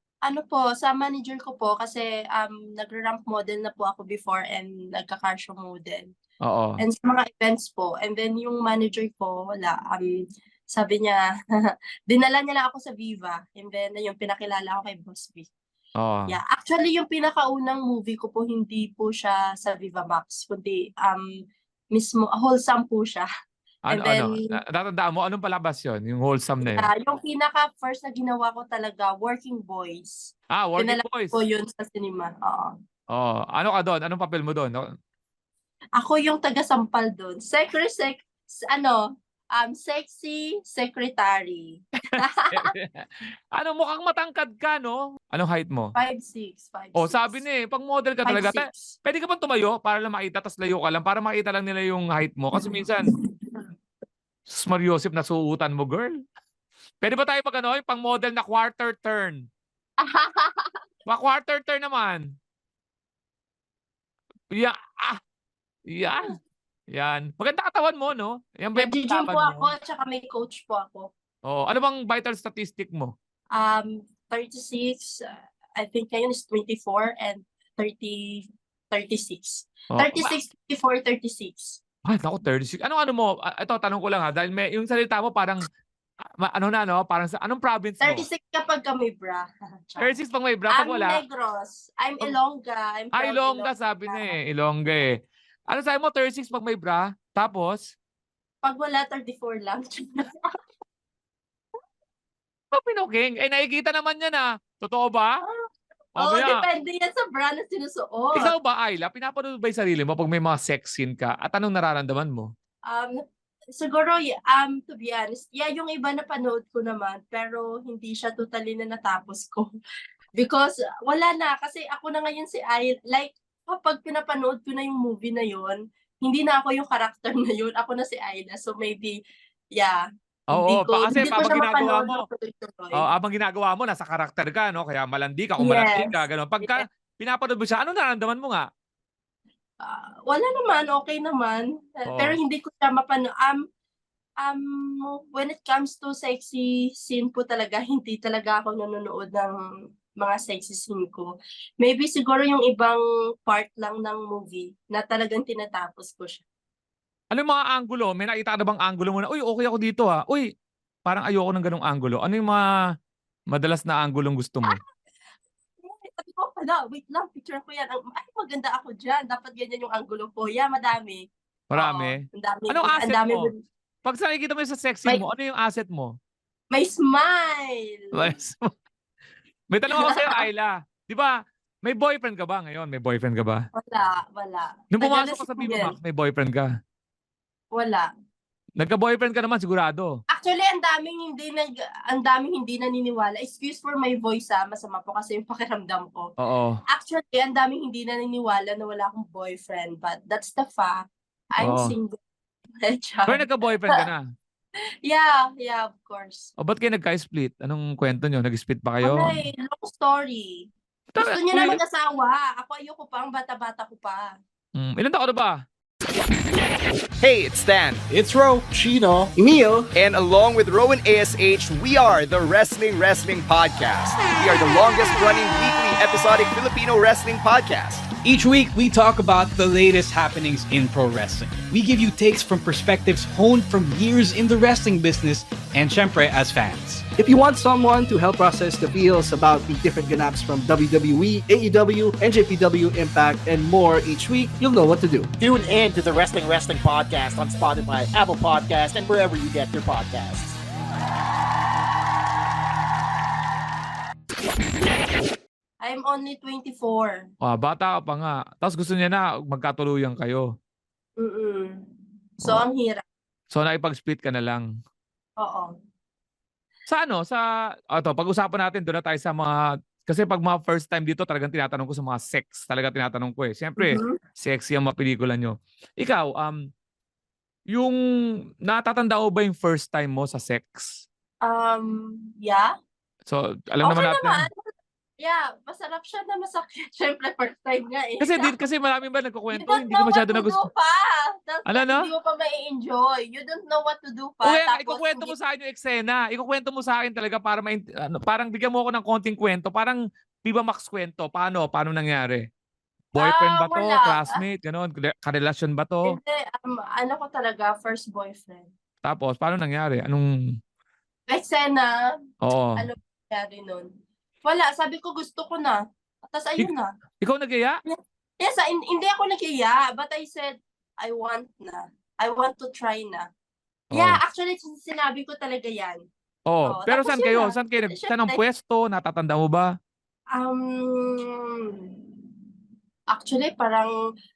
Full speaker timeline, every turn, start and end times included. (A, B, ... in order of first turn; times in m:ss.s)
0:00.2-0:06.1 A
0:06.4-0:06.8 B
0:06.8-0:10.1 A
0:10.7-0:15.5 A
0:16.0-0:16.4 B
0:16.3-0:21.2 A
0:21.9-0:23.3 A
0:23.9-0:24.5 A
0:23.9-0:26.9 B
0:26.7-0:32.7 A
0:30.5-0:31.4 B
0:33.1-0:34.8 B
0:36.0-0:39.0 A
0:39.5-0:42.7 A
0:42.5-0:46.0 B
0:46.0-0:47.4 A
0:47.0-0:53.1 B
0:48.2-0:49.0 A
0:52.6-0:53.3 A
0:54.5-0:56.1 B
0:57.0-0:59.5 B
1:00.0-1:00.8 A
1:01.1-1:02.2 B
1:04.5-1:05.2 B
1:05.9-1:06.3 B
1:06.9-1:09.7 B
1:08.8-1:11.1 A
1:11.4-1:13.1 B
1:13.5-1:21.8 A
1:19.9-1:20.3 B
1:22.1-1:25.6 B
1:26.4-1:28.2 B
1:28.0-1:30.1 A
1:30.0-1:31.2 B
1:30.7-1:34.3 A
1:33.1-1:35.1 B
1:35.7-1:37.9 B
1:38.6-1:40.2 A
1:42.8-1:45.3 B
1:46.2-1:46.6 B
1:46.2-1:48.5 A
1:48.3-1:52.5 B
1:52.9-1:53.2 A
1:53.8-1:59.7 A
2:00.4-2:09.2 A
2:09.8-2:13.0 A
2:10.5-2:12.2 B
2:12.9-2:18.6 B
2:15.6-2:16.8 A
2:19.8-2:23.6 A
2:22.1-2:22.4 B
2:24.4-2:29.6 A
2:30.2-2:31.3 A
2:31.8-2:36.4 A
2:37.3-2:40.5 B
2:41.1-2:42.6 B
2:43.5-2:44.8 B
2:45.8-2:53.6 A
2:51.7-2:53.5 B
2:54.0-2:56.2 B
2:56.7-2:58.3 A
2:58.1-2:58.7 B
2:59.7-3:03.7 B
3:00.0-3:00.4 A
3:03.8-3:05.9 A
3:04.9-3:06.7 B
3:07.7-3:08.1 A
3:08.8-3:10.2 B
3:10.3-3:16.3 A
3:16.4-3:16.8 B
3:16.9-3:22.2 A
3:21.6-3:21.9 B
3:22.8-3:23.9 A
3:23.3-3:24.2 B
3:25.0-3:26.5 A
3:26.6-3:29.4 B
3:29.0-3:34.4 A
3:31.2-3:31.8 B
3:34.8-3:35.6 B
3:37.2-3:38.0 C
3:38.1-3:38.7 D
3:38.7-3:39.9 E
3:40.0-3:48.1 C
3:48.2-3:57.0 D
3:57.2-4:05.3 E
4:05.4-4:10.5 F
4:15.8-4:17.2 A
4:17.4-4:20.5 B
4:21.2-4:21.8 A
4:22.4-4:23.0 A
4:23.5-4:24.7 B
4:25.4-4:25.7 A
4:26.9-4:36.6 B
4:33.8-4:34.2 A
4:37.7-4:38.0 B
4:38.6-4:41.0 B
4:41.4-4:42.7 A
4:43.3-4:44.5 B
4:43.8-4:44.5 A
4:45.2-4:48.5 A
4:48.2-4:50.6 B
4:49.5-4:55.3 A
4:51.7-4:52.1 B
4:54.4-5:02.4 B
5:03.1-5:06.2 B
5:03.2-5:04.4 A
5:06.1-5:08.7 A
5:09.0-5:10.3 B
5:11.3-5:12.0 A
5:12.4-5:12.8 B
5:12.8-5:13.9 A
5:14.4-5:16.9 A
5:17.2-5:17.8 B
5:17.9-5:23.3 A
5:23.9-5:24.2 B
5:23.9-5:26.0 A
5:26.5-5:29.7 B
5:26.7-5:28.4 A
5:30.4-5:31.9 A
5:33.1-5:33.9 A